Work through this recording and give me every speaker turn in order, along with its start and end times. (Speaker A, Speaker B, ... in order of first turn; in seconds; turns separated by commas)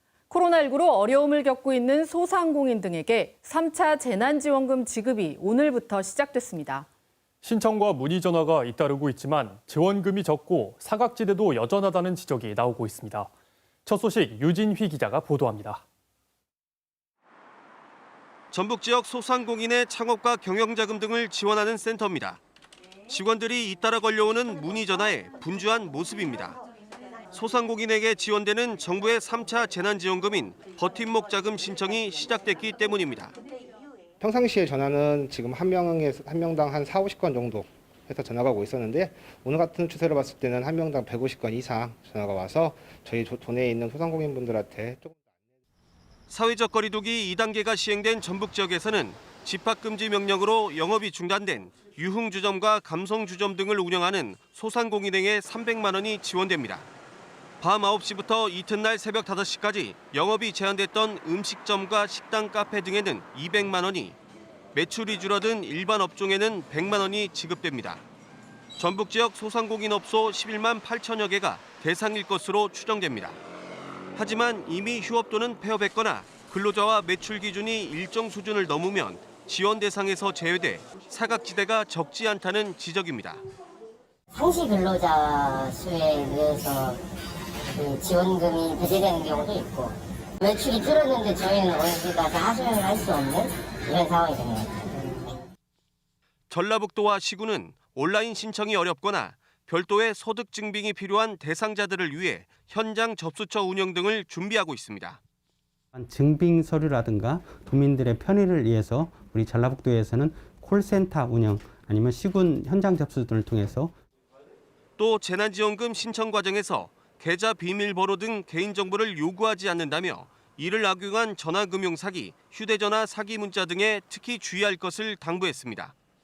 Speaker A: 0.3-6.9, Speaker B: 7.4-13.3, Speaker B: 13.9-15.8, Speaker C: 18.5-22.4, Speaker C: 23.1-26.6, Speaker C: 27.3-33.4, Speaker D: 34.2-45.2, Speaker C: 46.3-56.9, Speaker C: 57.6-64.2, Speaker C: 64.7-68.0, Speaker C: 68.8-73.4, Speaker C: 74.1-83.4, Speaker E: 84.3-87.0, Speaker E: 87.7-95.3, Speaker C: 96.5-105.2, Speaker F: 105.9-113.9, Speaker C: 115.0-125.9